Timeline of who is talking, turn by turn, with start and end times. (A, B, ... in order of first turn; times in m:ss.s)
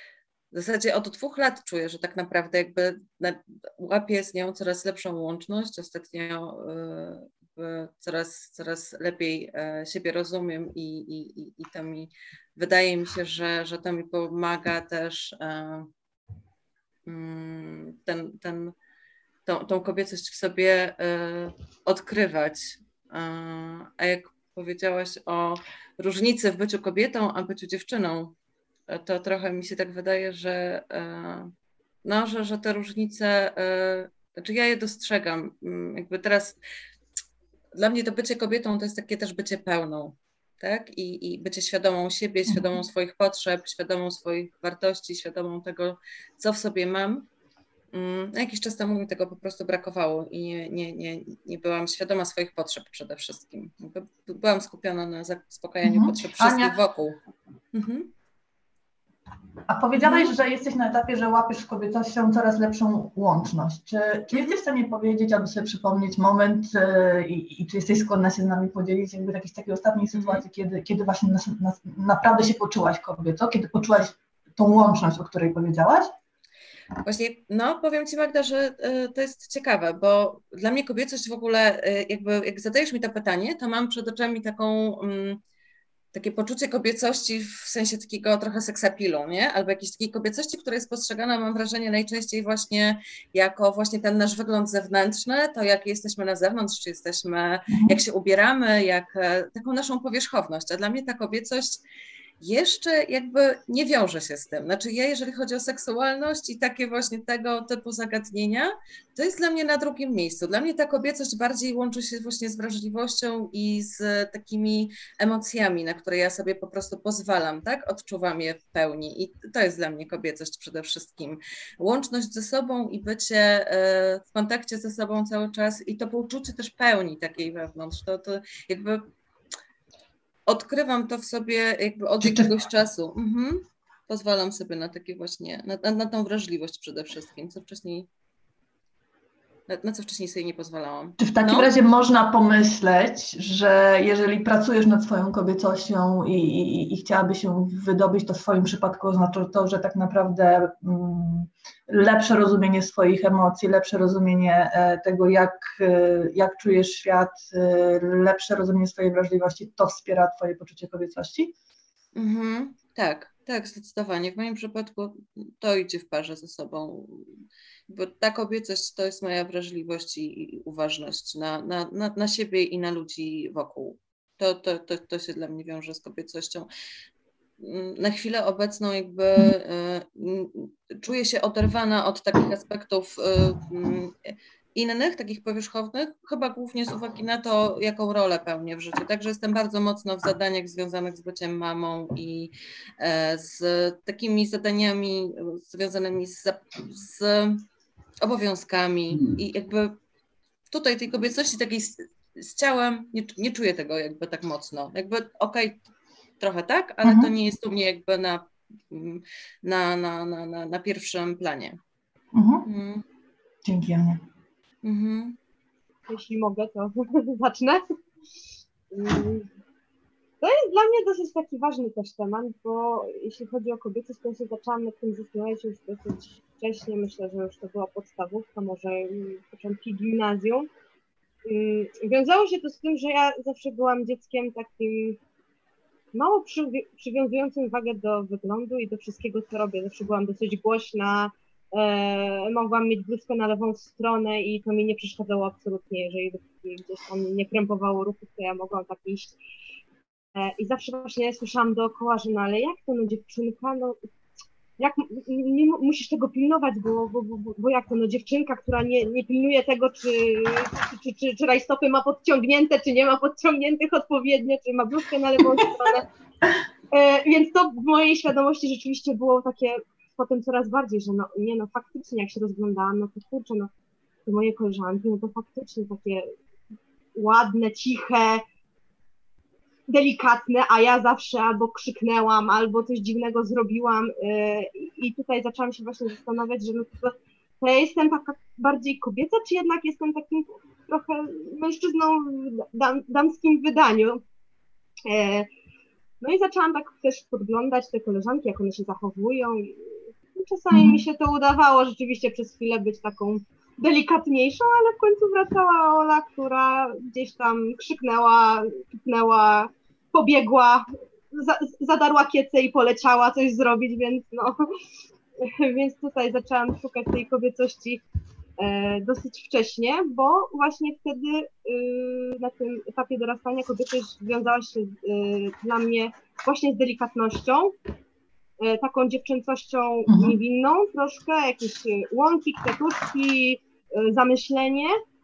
0:00.5-0:15.9 A
0:17.0-0:18.7 A
0:19.4-0:28.4 A
0:28.9-0:31.5 A
0:32.0-0:36.6 A
0:37.7-0:47.3 A
0:47.9-0:57.2 A
0:55.8-0:56.7 B
0:57.7-0:58.1 A
0:59.7-1:16.1 B
1:00.0-1:00.3 A
1:10.1-1:10.4 A
1:17.0-1:25.4 A
1:26.1-1:41.8 A
1:37.7-1:38.0 B
1:42.4-2:09.1 A
2:10.5-2:18.1 A
2:12.2-2:12.5 B
2:19.7-2:21.7 A
2:21.2-2:41.5 B
2:42.1-2:47.3 A
2:47.9-2:56.7 A
2:57.6-3:17.6 A
3:18.2-3:20.0 A
3:20.7-3:25.8 A
3:26.4-3:31.8 A
3:27.0-3:27.3 B
3:32.3-3:32.7 B
3:32.6-3:33.0 A
3:33.6-3:34.2 B
3:34.8-3:35.4 A
3:36.1-3:37.8 C
3:38.9-3:39.5 C
3:40.4-3:50.7 C
3:51.4-3:55.2 C
3:56.1-4:09.4 C
4:10.3-4:14.0 C
4:14.8-4:26.0 C
4:26.9-4:33.7 C
4:34.2-4:36.2 C
4:37.1-4:38.4 C
4:39.9-4:54.2 C
4:55.0-4:55.5 C
4:56.2-5:14.6 C
5:00.7-5:01.0 B
5:15.4-5:18.0 C
5:18.6-5:27.8 C
5:28.6-5:34.9 C
5:30.1-5:30.4 B